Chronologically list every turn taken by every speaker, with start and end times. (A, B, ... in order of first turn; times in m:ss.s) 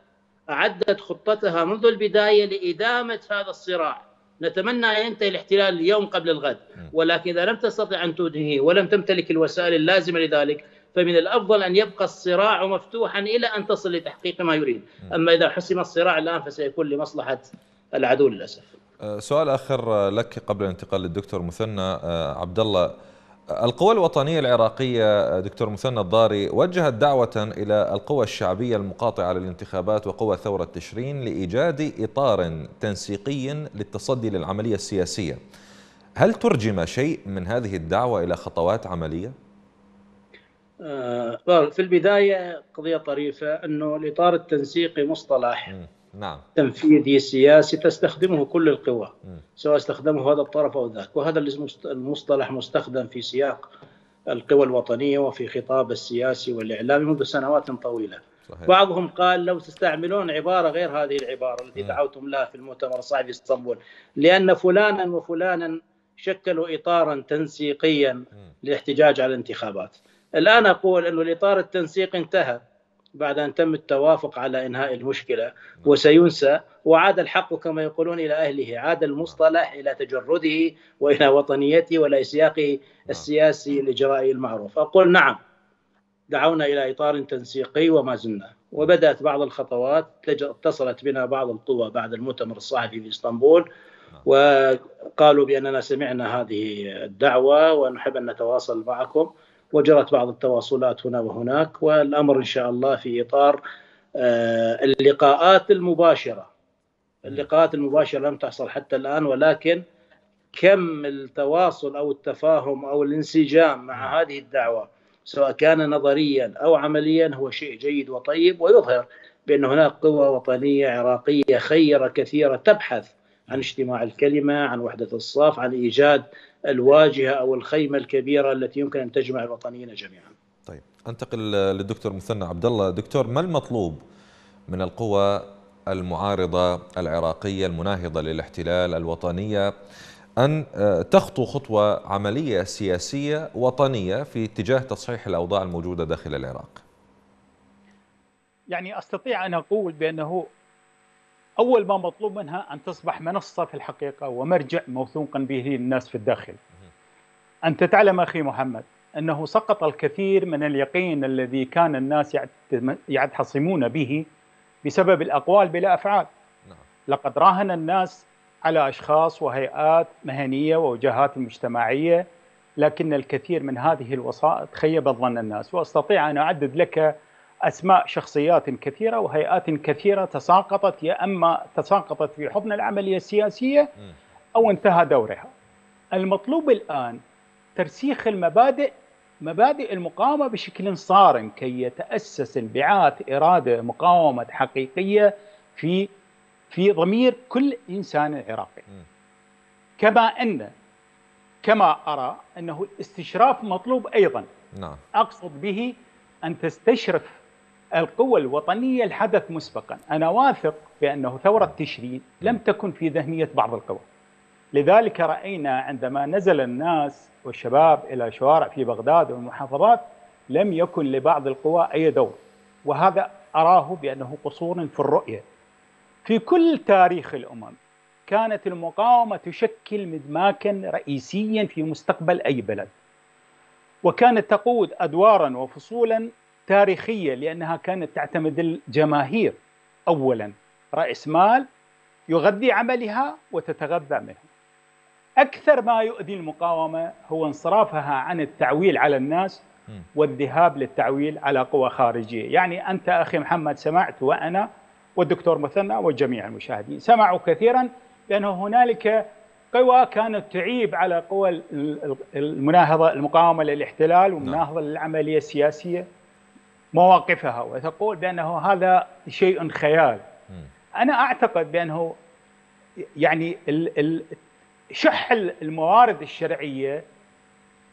0:00.5-0:18.7 A
0:19.0-0:22.9 B
0:23.5-0:35.4 B
0:36.2-0:39.3 B
0:40.8-0:45.7 A
0:45.7-0:46.4 B
0:46.6-0:53.7 A
0:54.3-1:12.6 A
0:58.5-0:58.7 B
1:13.2-1:25.4 A
1:26.3-1:33.6 A
1:34.2-1:43.6 A
1:44.1-1:46.5 A
1:47.2-1:49.8 A
1:50.5-2:10.3 A
2:10.6-2:14.0 B
2:14.7-2:19.7 B
2:20.4-2:26.8 B
2:28.7-2:30.5 C
2:31.6-2:36.6 C
2:37.7-2:44.2 C
2:44.8-2:46.3 C
2:47.1-2:52.2 C
2:52.8-2:57.1 C
2:57.6-3:03.9 C
3:04.5-3:05.5 C
3:06.1-3:07.2 C
3:07.8-3:08.9 C
3:09.4-3:16.1 C
3:16.7-3:18.8 C
3:20.0-3:20.7 C
3:21.6-3:24.5 C
3:24.7-3:25.0 B
3:25.2-3:27.4 C
3:28.0-3:34.0 C
3:34.7-3:45.4 C
3:46.2-3:52.9 C
3:54.0-4:01.7 C
4:02.3-4:04.5 C
4:05.4-4:09.6 C
4:10.2-4:26.0 C
4:26.9-4:30.2 C
4:31.0-4:32.1 C
4:33.2-4:34.4 C
4:34.9-4:37.0 C